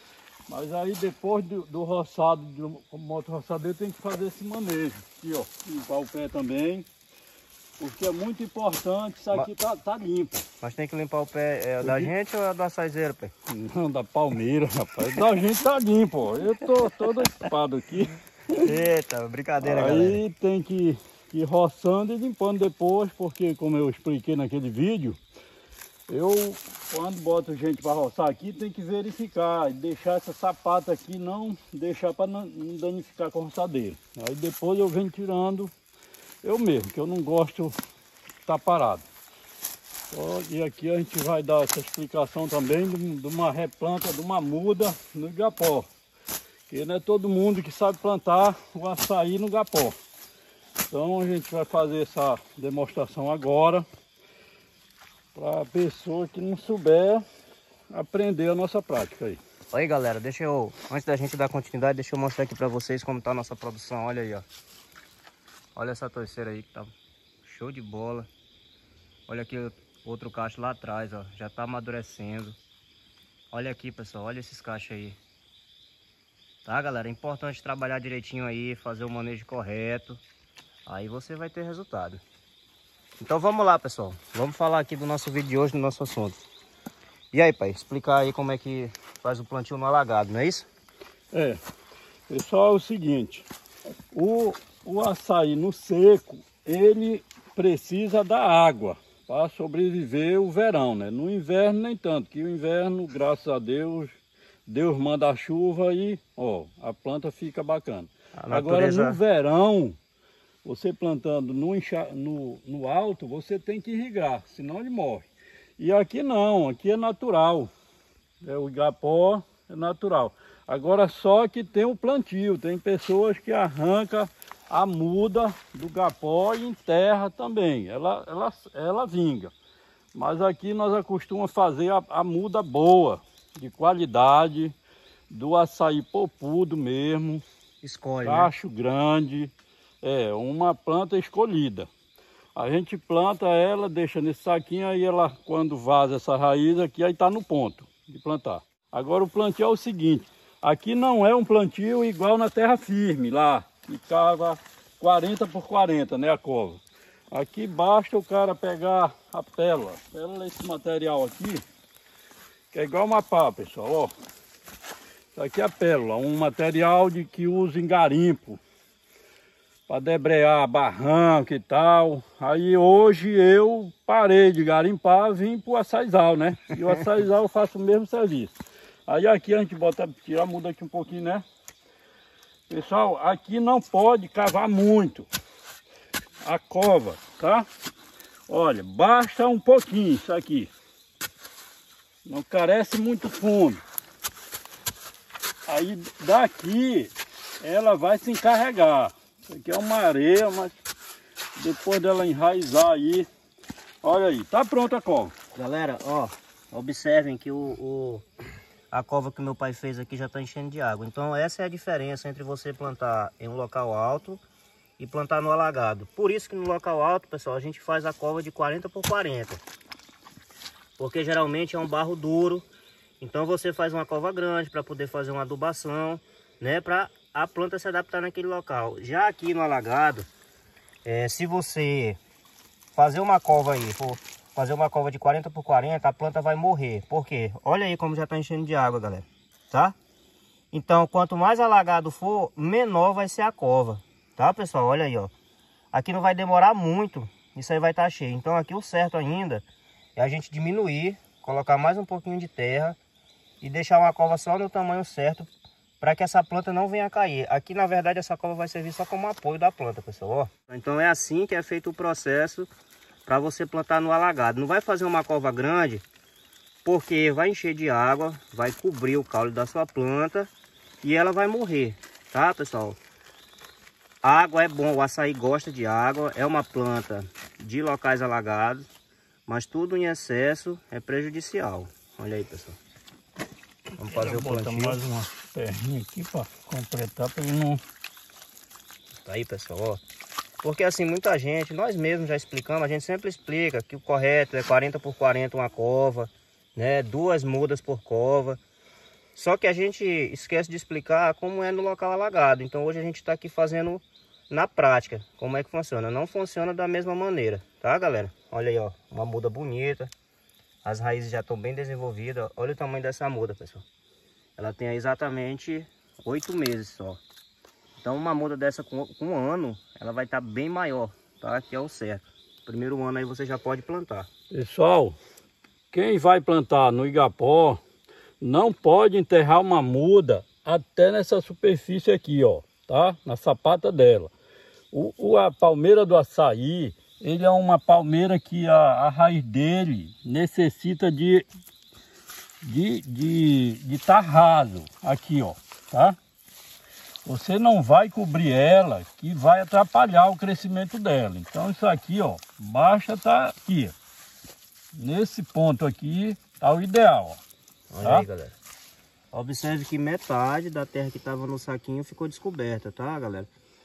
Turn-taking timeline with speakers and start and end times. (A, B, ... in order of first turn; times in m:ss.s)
0:00.5-0:06.9 A
0:07.8-0:10.4 A
0:10.6-0:13.3 B
0:11.8-0:12.1 A
0:13.5-0:18.7 A
0:18.6-0:20.2 B
0:19.6-0:25.2 A
0:26.1-0:35.7 A
0:36.4-0:37.8 A
0:38.5-0:39.1 A
0:40.1-0:45.9 A
0:46.7-0:50.0 A
0:50.9-0:53.8 A
0:55.4-0:57.2 A
0:57.9-0:59.4 A
0:59.7-1:04.4 B
1:05.8-1:06.9 B
1:07.4-1:08.3 B
1:09.3-1:12.6 B
1:13.5-1:15.2 B
1:16.6-1:20.2 B
1:20.8-1:22.2 B
1:23.2-1:26.4 B
1:27.3-1:30.7 B
1:31.3-1:31.6 A
1:32.3-1:33.5 A
1:34.1-1:44.2 A
1:44.7-1:50.0 A
1:48.4-1:49.2 B
1:50.6-1:55.3 A
1:55.8-1:57.7 A
1:58.4-2:09.5 A
2:10.2-2:14.8 A
2:15.3-2:17.4 A
2:17.8-2:18.5 B
2:18.2-2:19.5 A
2:20.0-2:21.9 A
2:22.6-2:41.6 A
2:42.7-2:44.1 A
2:45.4-2:48.6 A
2:49.9-2:58.5 A
2:59.1-3:01.4 A
3:02.7-3:05.3 A
3:06.4-3:07.7 A
3:08.5-3:10.7 A
3:12.3-3:13.8 A
3:15.7-3:20.8 A
3:21.6-3:23.3 A
3:24.0-3:25.3 A
3:25.6-3:28.3 B
3:28.9-3:34.4 B
3:35.0-3:39.6 B
3:41.0-3:42.7 B
3:43.2-3:50.3 B
3:51.0-3:52.2 B
3:53.0-4:00.0 B
4:00.7-4:05.3 B
4:05.9-4:09.6 B
4:10.2-4:13.0 B
4:13.6-4:15.5 B
4:16.0-4:22.7 B
4:23.3-4:26.0 B
4:26.8-4:30.5 B
4:31.0-4:33.0 B
4:34.2-4:38.9 B
4:39.5-4:42.8 B
4:43.9-4:47.8 A
4:44.0-4:45.0 B
4:49.2-4:50.0 B
4:50.6-4:58.6 B
4:59.4-5:10.1 B
5:10.8-5:13.8 B
5:14.6-5:17.2 B
5:18.0-5:24.3 B
5:24.5-5:25.2 A
5:25.9-5:27.8 A
5:28.4-5:34.3 A
5:34.9-5:41.5 A
5:42.6-5:46.2 A
5:47.2-5:54.0 A
5:55.0-5:57.4 A
5:57.9-5:58.6 B
5:59.3-6:03.5 B